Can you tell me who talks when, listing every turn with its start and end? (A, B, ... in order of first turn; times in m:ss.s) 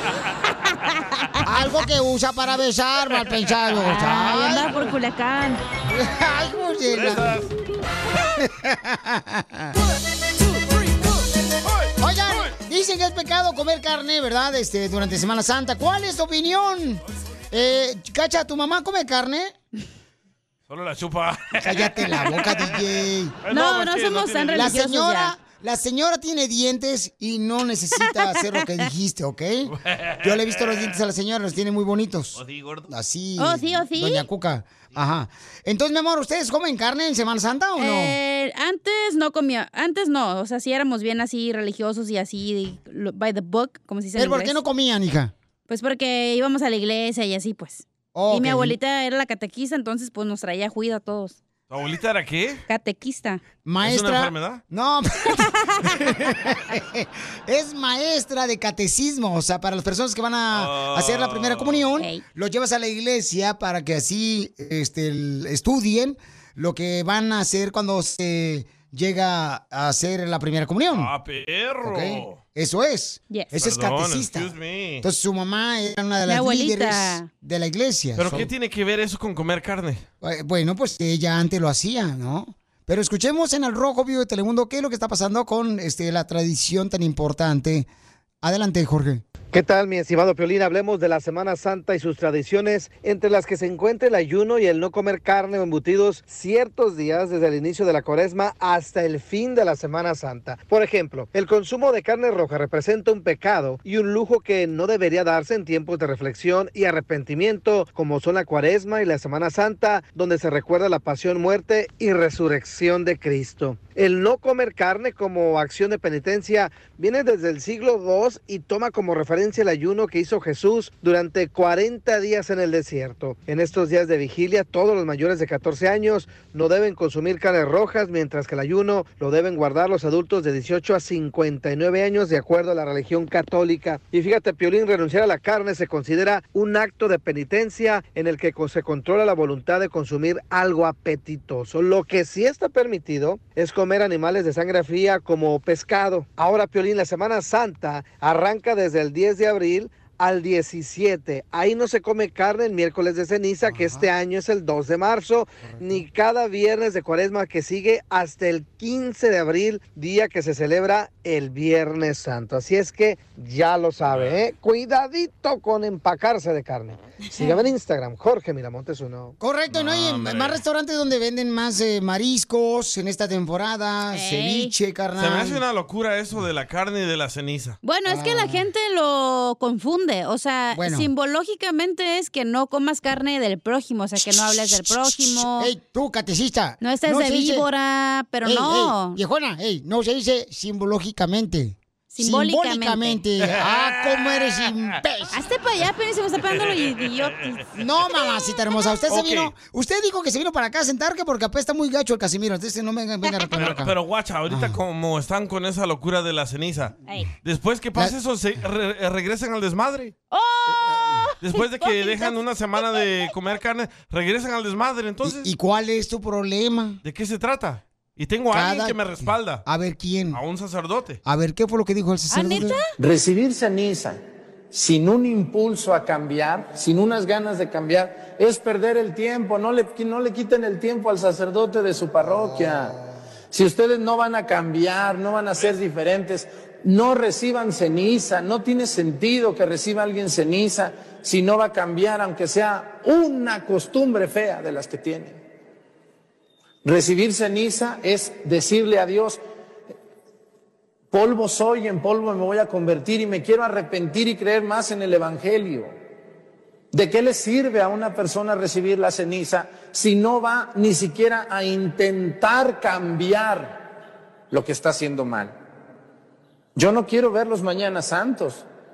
0:01.4-0:04.8 A
0:03.8-0:05.6 B
0:05.9-0:07.4 A
0:06.9-0:07.5 C
0:08.4-0:09.8 A
0:12.0-0:19.5 A
0:20.7-0:22.1 C
0:21.6-0:23.4 A
0:23.4-0:24.8 C
0:23.5-0:25.3 B
0:24.5-0:38.2 A
0:29.8-0:30.9 C
0:32.4-0:32.9 C
0:33.4-0:34.2 B
0:37.8-0:44.6 B
0:44.2-0:45.3 A
0:45.7-0:51.4 B
0:48.1-0:48.8 A
0:51.7-0:52.6 C
0:52.7-0:53.4 B
0:53.6-1:11.1 A
0:53.8-0:54.6 C
1:00.5-1:01.9 C
1:02.0-1:02.2 B
1:10.9-1:12.4 C
1:11.8-1:18.5 A
1:13.5-1:15.0 C
1:16.3-1:17.3 B
1:18.2-1:20.1 C
1:20.2-1:27.9 A
1:28.4-1:29.2 A
1:29.5-2:49.4 D
2:33.6-2:34.1 A
2:35.6-2:36.0 A
2:44.0-2:44.4 C
2:47.3-2:47.6 B
2:49.4-2:55.6 A
2:49.7-2:50.6 C
2:54.1-2:54.7 B
2:55.2-2:57.8 C
2:57.8-3:05.7 B
2:58.1-2:58.7 A
3:00.7-3:01.1 A
3:04.2-3:07.7 A
3:06.8-3:09.2 B
3:08.4-3:15.4 A
3:12.1-3:13.2 B
3:13.6-3:14.7 C
3:15.3-3:17.6 B
3:16.5-3:17.3 C
3:17.8-3:23.9 A
3:19.1-3:19.5 C
3:23.6-3:30.1 C
3:24.5-3:24.8 A
3:30.3-3:33.1 B
3:30.7-3:31.2 A
3:31.4-3:35.5 C
3:35.2-3:37.0 A
3:37.0-3:39.6 C
3:38.5-3:39.1 A
3:39.6-3:40.4 A
3:40.3-3:41.2 C
3:41.2-3:42.8 A
3:42.3-3:42.9 B
3:43.0-3:44.2 E
3:44.7-3:52.9 E
3:52.2-3:53.2 A
3:53.5-4:05.4 E
4:06.8-4:09.4 E
4:11.1-4:15.9 E
4:16.9-4:23.8 E
4:24.5-4:25.6 E
4:26.8-4:28.6 E